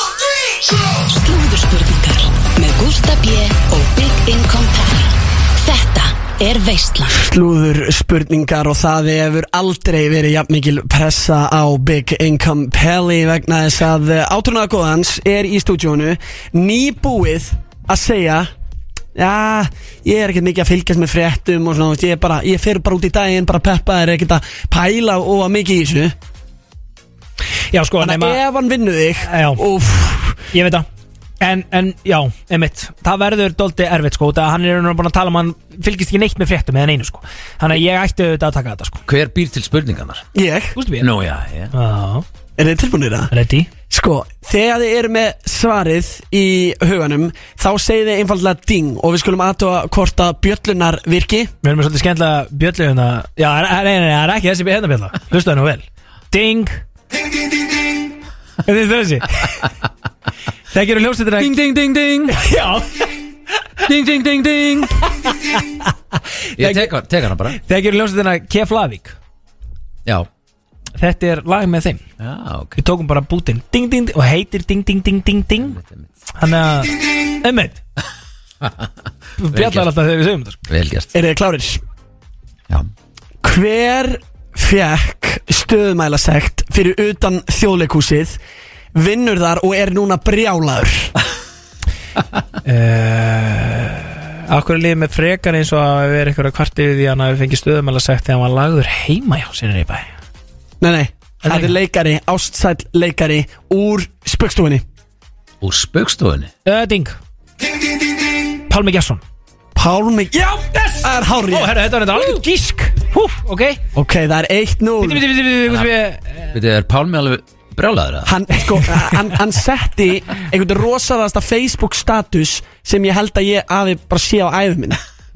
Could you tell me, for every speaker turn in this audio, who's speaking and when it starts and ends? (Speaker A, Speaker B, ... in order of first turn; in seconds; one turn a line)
Speaker A: 1.0-7.2
Speaker B: 7.1-18.5
Speaker B: 19.1-26.1
Speaker C: 27.7-28.4
Speaker B: 28.0-30.4
Speaker C: 29.2-29.6
Speaker C: 30.5-30.9
Speaker C: 31.4-39.0
Speaker D: 39.1-40.2
Speaker B: 40.4-40.8
Speaker C: 40.8-41.1
Speaker D: 41.0-41.7
Speaker C: 41.7-42.2
Speaker B: 42.6-43.3
Speaker C: 43.3-43.7
Speaker B: 43.9-51.5
Speaker C: 51.6-56.8
Speaker C: 58.6-59.7
Speaker C: 60.7-61.6
Speaker D: 61.4-62.4
Speaker C: 62.3-63.1
Speaker D: 63.9-65.1
Speaker C: 65.2-65.9
Speaker C: 66.6-66.9
Speaker D: 66.6-67.6
Speaker C: 67.5-69.2
Speaker C: 71.0-72.0
Speaker D: 72.2-72.8
Speaker C: 72.8-75.8
Speaker D: 75.6-76.1
Speaker C: 76.4-77.8
Speaker D: 78.6-78.9
Speaker C: 79.4-80.6
Speaker D: 79.5-79.9
Speaker D: 80.7-81.2
Speaker B: 81.1-81.8
Speaker B: 83.4-88.4
Speaker B: 88.9-91.1
Speaker C: 92.7-100.1
Speaker B: 100.8-104.8
Speaker C: 101.5-101.8
Speaker D: 105.6-106.5
Speaker C: 106.7-107.2
Speaker C: 108.7-109.2
Speaker B: 109.8-111.8
Speaker C: 110.3-113.8
Speaker B: 113.9-115.3
Speaker C: 115.0-116.6
Speaker D: 116.5-118.4
Speaker B: 118.2-125.0